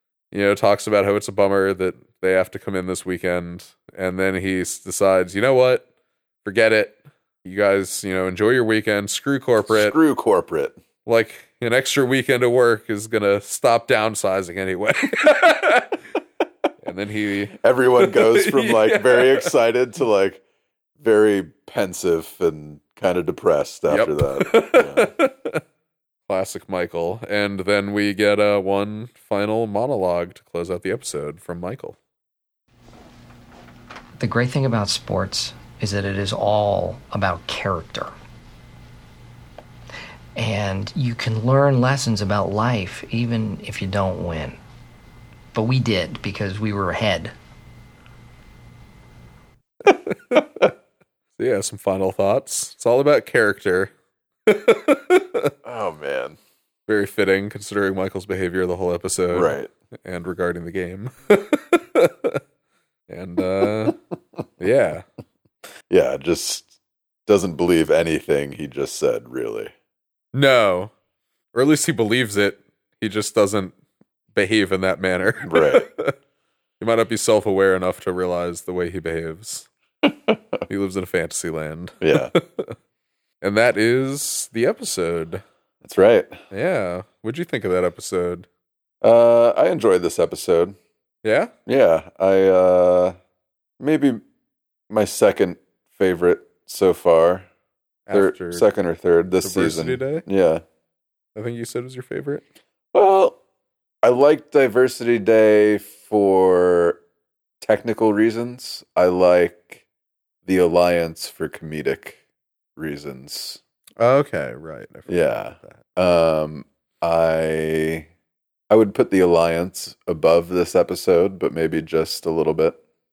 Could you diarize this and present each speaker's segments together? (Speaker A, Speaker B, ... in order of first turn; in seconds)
Speaker A: 0.3-5.8, 6.4-10.0, 11.1-16.0, 16.8-19.5, 23.9-25.6, 26.3-32.0, 50.1-50.5, 51.4-53.9, 54.5-55.5, 56.9-62.4, 63.1-64.0, 64.6-65.0, 70.3-70.9, 71.5-73.8, 74.3-76.2, 76.8-79.7, 80.7-82.8, 83.4-85.4, 86.5-88.5, 91.2-91.5, 98.1-98.7, 99.4-100.2, 101.4-102.4, 114.0-115.8
Speaker B: 9.7-10.8, 17.6-20.4, 21.0-25.1, 55.6-56.4, 59.3-59.7, 63.6-63.9, 65.9-66.7, 67.3-69.7, 75.4-75.9, 80.1-80.6, 82.0-82.3, 85.8-86.4, 89.0-90.8, 91.7-93.2, 93.8-94.2, 94.9-97.5, 98.1-100.6, 102.9-103.4, 104.0-107.0, 107.6-109.8, 110.5-112.2, 112.8-113.6, 115.1-118.1, 118.7-122.8
Speaker C: 34.2-38.1, 40.4-44.6, 45.5-47.3